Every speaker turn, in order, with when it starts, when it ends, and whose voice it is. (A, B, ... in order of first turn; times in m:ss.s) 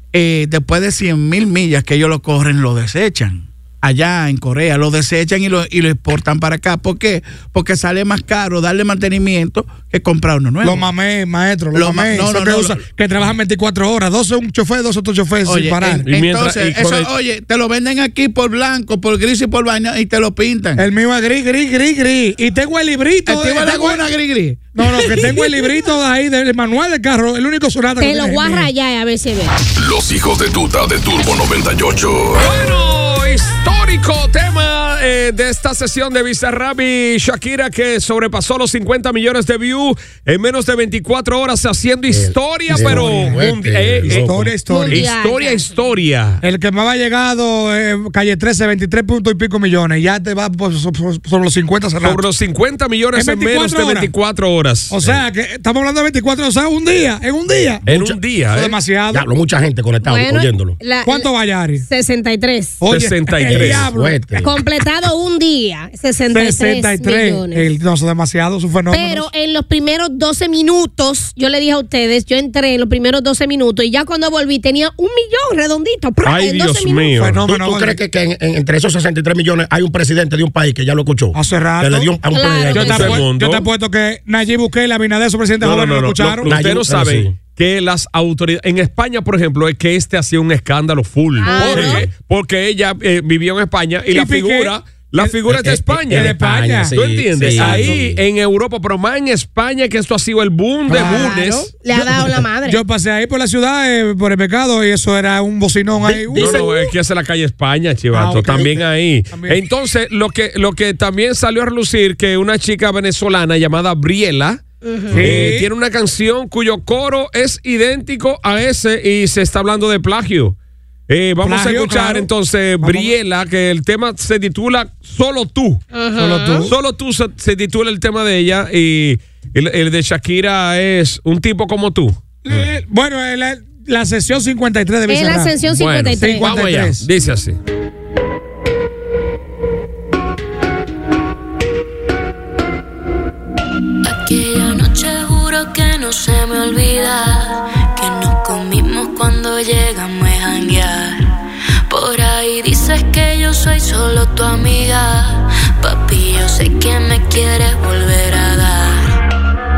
0:00.1-0:10.9 A
0:10.6-0:16.1 B
0:11.7-0:12.8 A
0:15.5-0:20.8 A
0:16.1-0:17.1 C
0:20.8-0:24.0 B
0:23.3-0:24.9 A
0:24.8-0:28.7 B
0:28.0-0:29.5 D
0:29.8-0:32.5 E
0:32.4-0:46.4 C
0:42.1-0:44.5 F
0:42.8-0:43.4 B
0:44.0-0:45.1 B
0:44.7-0:45.7 D
0:46.4-0:52.2 B
0:52.0-0:55.0 C
0:53.1-0:54.1 B
0:54.9-0:57.8 B
0:57.9-0:58.8 C
0:58.4-0:59.3 B
0:59.1-1:00.8 F
1:00.0-1:02.8 D
1:01.0-1:01.8 B
1:02.8-1:04.2 B
1:02.9-1:03.9 C
1:03.5-1:04.5 F
1:04.4-1:07.7 D
1:06.3-1:09.3 B
1:08.9-1:17.1 D
1:16.2-1:17.4 C
1:17.2-1:18.0 B
1:17.4-1:23.2 F
1:21.4-1:22.1 B
1:22.3-1:23.2 D
1:22.7-1:26.6 B
1:22.8-1:23.6 C
1:25.6-1:36.4 C
1:26.5-1:27.4 F
1:31.4-1:32.1 D
1:31.5-1:31.9 B
1:34.1-1:35.4 B
1:35.5-1:38.2 F
1:36.1-1:38.0 B
1:36.9-1:41.7 C
1:40.9-1:41.4 B
1:41.0-1:42.8 D
1:41.9-1:46.8 B
1:46.1-1:46.6 F
1:46.1-1:54.6 C
1:48.1-1:49.6 B
1:54.8-1:55.2 D
1:55.1-1:55.7 B
1:55.2-2:00.6 C
2:01.1-2:05.8 C
2:01.4-2:02.3 B
2:02.8-2:03.2 B
2:05.9-2:06.7 D
2:06.2-2:06.8 B
2:06.7-2:12.6 C
2:12.4-2:15.6 B
2:15.1-2:16.5 D
2:15.7-2:17.6 C
2:16.2-2:17.1 B
2:24.0-2:31.4 G
2:31.9-2:39.2 G